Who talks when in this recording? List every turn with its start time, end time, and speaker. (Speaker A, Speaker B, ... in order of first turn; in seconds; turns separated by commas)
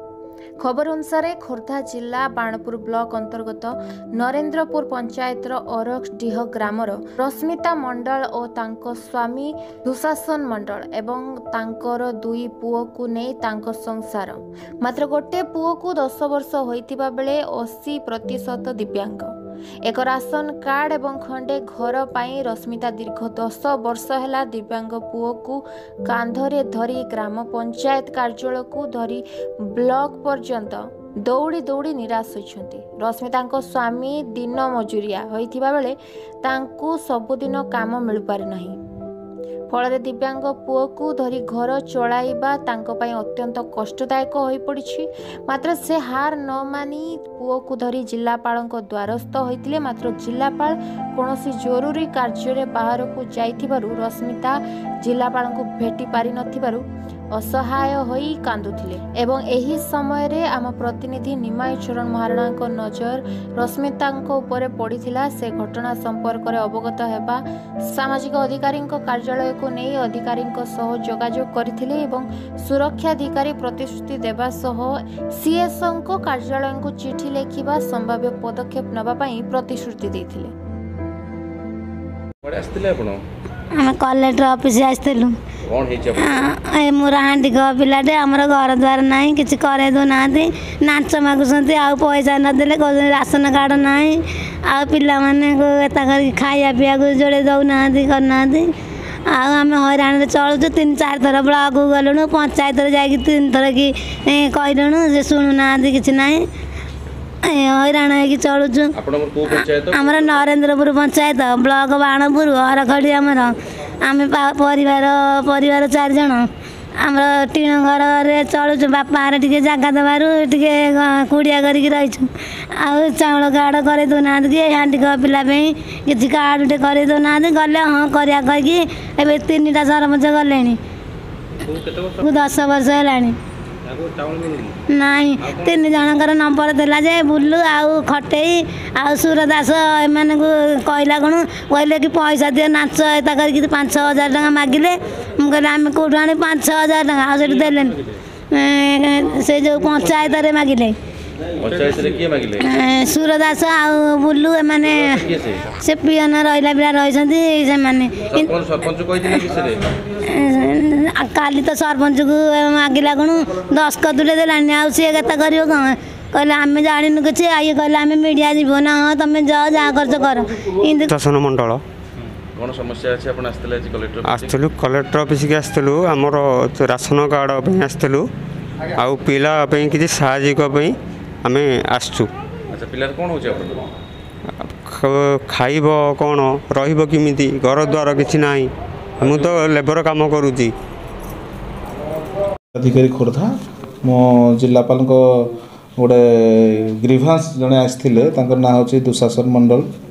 Speaker A: 0.6-19.3, Speaker A: 19.9-38.8, Speaker A: 39.7-80.5, Speaker B: 82.4-83.2, Speaker C: 83.8-85.4, Speaker B: 85.7-86.5, Speaker C: 86.2-98.7, Speaker C: 99.3-106.5, Speaker C: 107.5-109.0, Speaker B: 109.0-110.4, Speaker C: 109.5-116.5, Speaker C: 117.0-130.8, Speaker B: 131.7-132.2, Speaker C: 132.2-133.4, Speaker B: 133.9-134.8, Speaker C: 134.9-151.0, Speaker B: 135.4-135.9, Speaker B: 151.6-152.7, Speaker C: 152.6-155.2, Speaker B: 154.9-155.7, Speaker C: 155.8-158.5, Speaker B: 158.3-159.8, Speaker C: 160.3-171.1, Speaker D: 171.1-171.8, Speaker B: 172.5-174.6, Speaker D: 174.2-178.2, Speaker D: 179.0-182.3, Speaker B: 182.7-183.8, Speaker D: 184.6-190.7, Speaker B: 189.2-189.6, Speaker E: 192.8-199.9